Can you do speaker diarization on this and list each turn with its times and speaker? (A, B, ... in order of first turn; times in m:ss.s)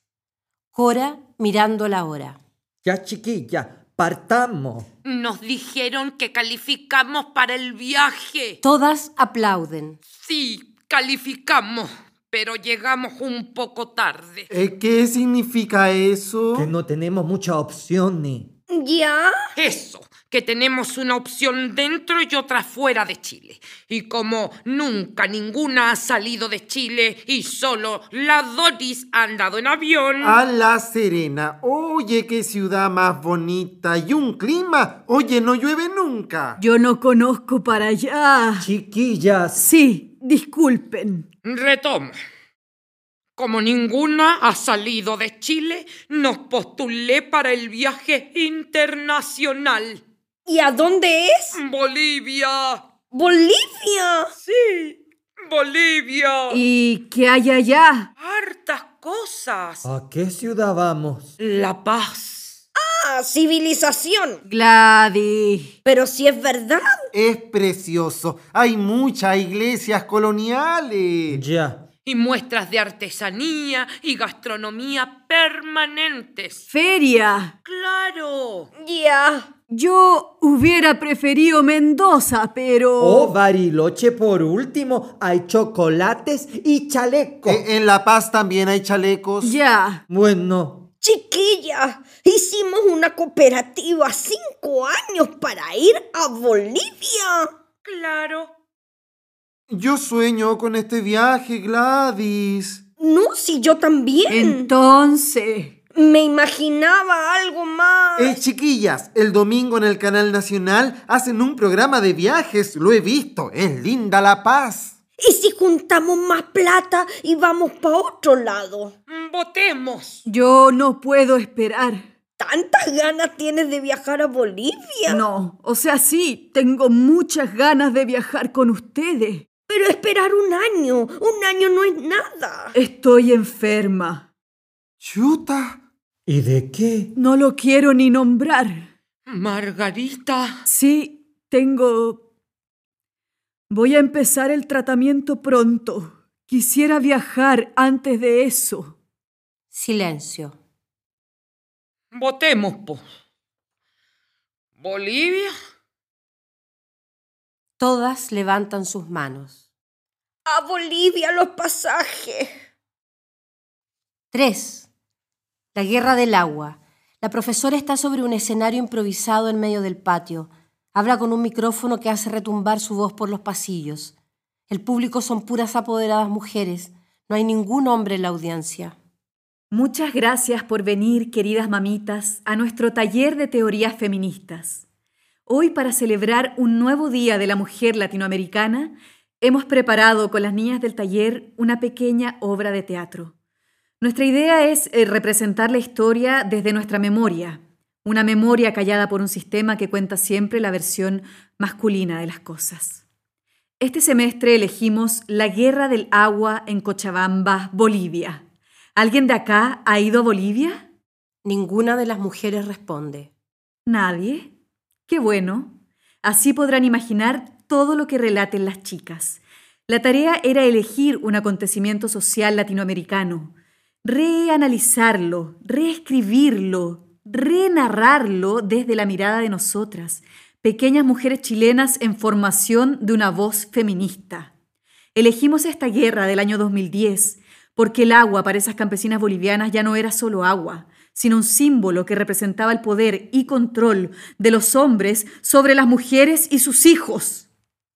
0:00.7-0:02.4 A
0:02.8-0:04.9 B
0:05.0-0:08.6 C
0:08.6-0:10.0 A
0:10.1-0:14.5 C
0:14.5-0:16.7 D
0:16.5-0:18.5 B
0:18.7-0:19.5 E
0:19.6-0:30.4 C
0:30.2-0:36.6 D
0:36.6-0:38.7 F
0:38.6-0:39.6 B
0:39.6-0:41.2 F
0:41.4-0:42.2 C
0:43.4-0:50.0 C
0:50.5-0:51.6 E
0:51.5-0:52.9 C
0:53.1-0:54.3 E
0:54.4-0:56.6 C
0:56.5-0:58.1 F
0:58.2-0:59.8 C
0:59.8-1:01.4 B
1:01.4-1:02.6 C
1:02.8-1:04.4 E
1:04.5-1:05.8 F
1:05.8-1:07.0 E
1:07.1-1:11.4 D
1:11.3-1:11.9 B
1:12.0-1:16.6 C
1:16.7-1:17.6 F
1:17.6-1:18.7 C
1:18.8-1:19.5 E
1:19.7-1:23.3 F
1:23.0-1:27.6 B
1:27.5-1:29.6 D
1:29.4-1:30.0 F
1:30.1-1:30.9 B
1:31.0-1:37.5 E
1:37.8-1:38.5 C
1:39.7-1:42.8 D
1:43.0-1:44.7 E
1:44.3-1:45.8 F
1:45.9-1:48.4 E
1:48.2-1:55.0 D
1:55.2-1:59.0 E
1:59.1-2:00.2 C
2:00.3-2:02.1 F
2:02.4-2:05.2 E
2:05.1-2:09.5 F
2:09.7-2:12.8 E
2:12.7-2:14.3 F
2:15.0-2:15.8 D
2:16.3-2:17.1 B
2:17.2-2:18.9 F
2:19.3-2:20.6 C
2:20.7-2:22.2 F
2:23.7-2:29.0 F
2:29.7-2:30.6 A
2:32.1-2:33.0 C
2:34.8-2:35.5 C
2:37.8-2:39.6 A
2:40.5-2:42.5 E
2:44.3-2:44.9 A
2:45.8-2:54.1 A
2:54.7-2:59.0 A
2:59.7-3:04.8 F
3:05.5-3:13.3 F
3:14.0-3:23.0 F
3:23.8-3:28.4 F
3:29.0-3:30.9 F
3:31.4-3:33.3 A
3:33.9-3:34.5 F
3:35.1-3:43.5 F
3:44.0-3:54.5 F
3:55.2-4:07.5 F